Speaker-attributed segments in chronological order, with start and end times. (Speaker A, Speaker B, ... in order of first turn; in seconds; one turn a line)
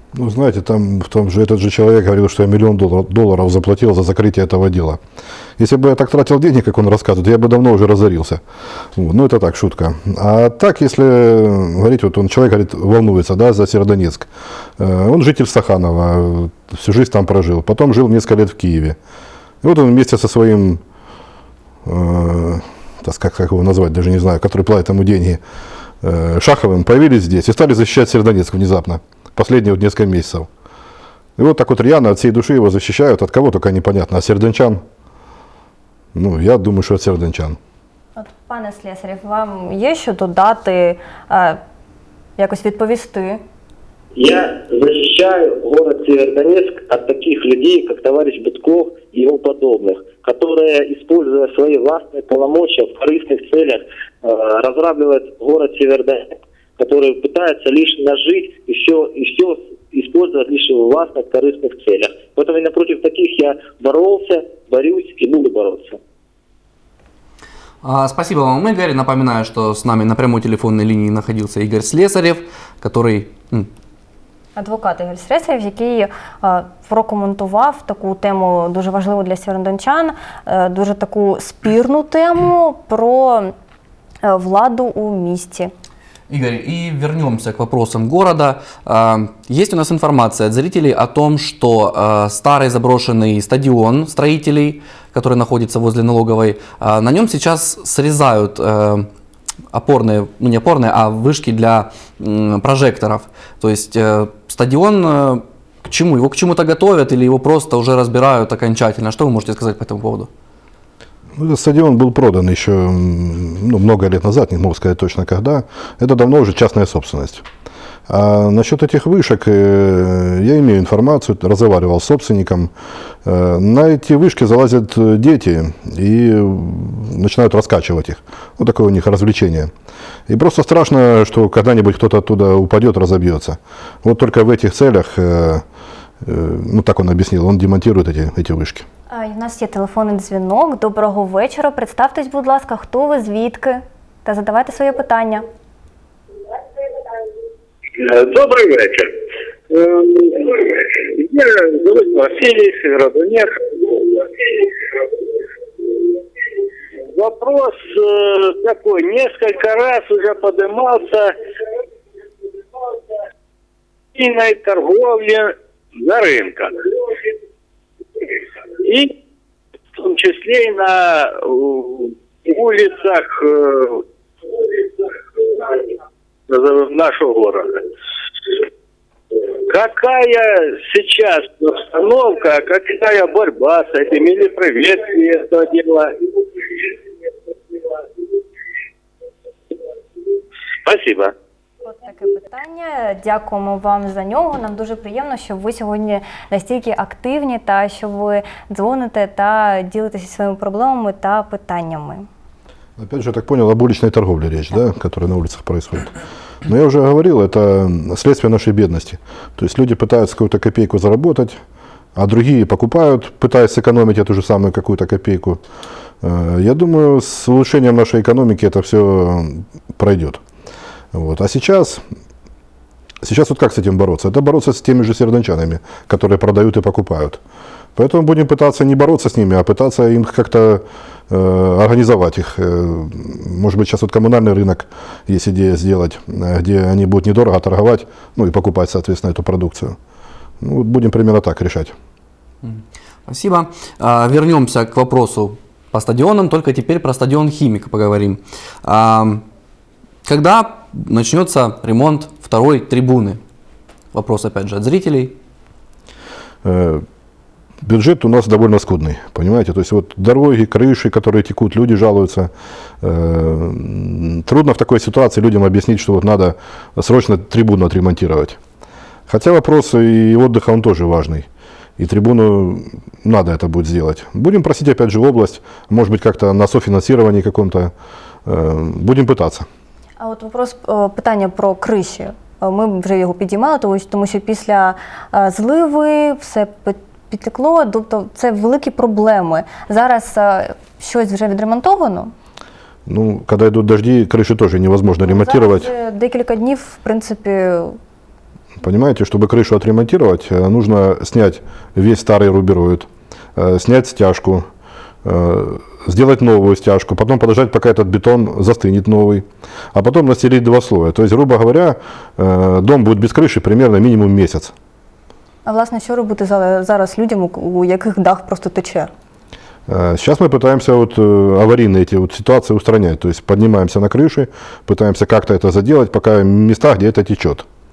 Speaker A: 0.1-5.0
Speaker A: 5.6-8.4
Speaker A: 8.9-19.0
Speaker A: 19.6-20.8
Speaker A: 21.8-25.4
Speaker A: 26.0-30.5
Speaker A: 31.4-34.8
Speaker A: 36.1-37.6
Speaker B: 38.1-41.6
Speaker B: 42.4-43.4
Speaker C: 44.1-66.0
Speaker D: 67.8-73.7
Speaker B: 74.5-83.5
Speaker B: 84.2-85.7
Speaker D: 86.3-99.1
Speaker D: 99.7-110.3
Speaker A: 111.3-117.4
Speaker A: 118.1-122.7
Speaker A: 123.2-129.7
Speaker A: 130.3-135.6
Speaker A: 136.2-138.8
Speaker B: 139.1-145.4
Speaker E: 148.0-149.1
Speaker E: 149.7-154.7
Speaker E: 157.1-161.3
Speaker E: 164.1-166.7
Speaker E: 168.8-169.1
Speaker E: 169.9-174.0
Speaker E: 175.4-175.8
Speaker E: 176.5-177.8
Speaker E: 179.7-186.2
Speaker E: 190.8-191.3
Speaker B: 191.8-202.3
Speaker A: 203.0-206.1
Speaker A: 206.6-211.6
Speaker A: 212.1-215.6
Speaker A: 216.2-220.4
Speaker A: 221.1-222.0
Speaker A: 223.2-227.4
Speaker A: 227.9-240.0
Speaker A: 240.6-241.9
Speaker D: 242.6-249.4
Speaker D: 250.2-253.4
Speaker D: 254.1-255.4
Speaker A: 256.6-257.0
Speaker A: 257.8-268.6
Speaker A: 269.3-271.5
Speaker A: 272.0-277.9
Speaker A: 278.4-279.7
Speaker B: 280.2-292.3
Speaker A: 293.1-295.9
Speaker B: 295.2-298.0
Speaker A: 298.8-304.6
Speaker A: 305.2-314.7
Speaker B: 315.6-319.1
Speaker A: 319.9-327.6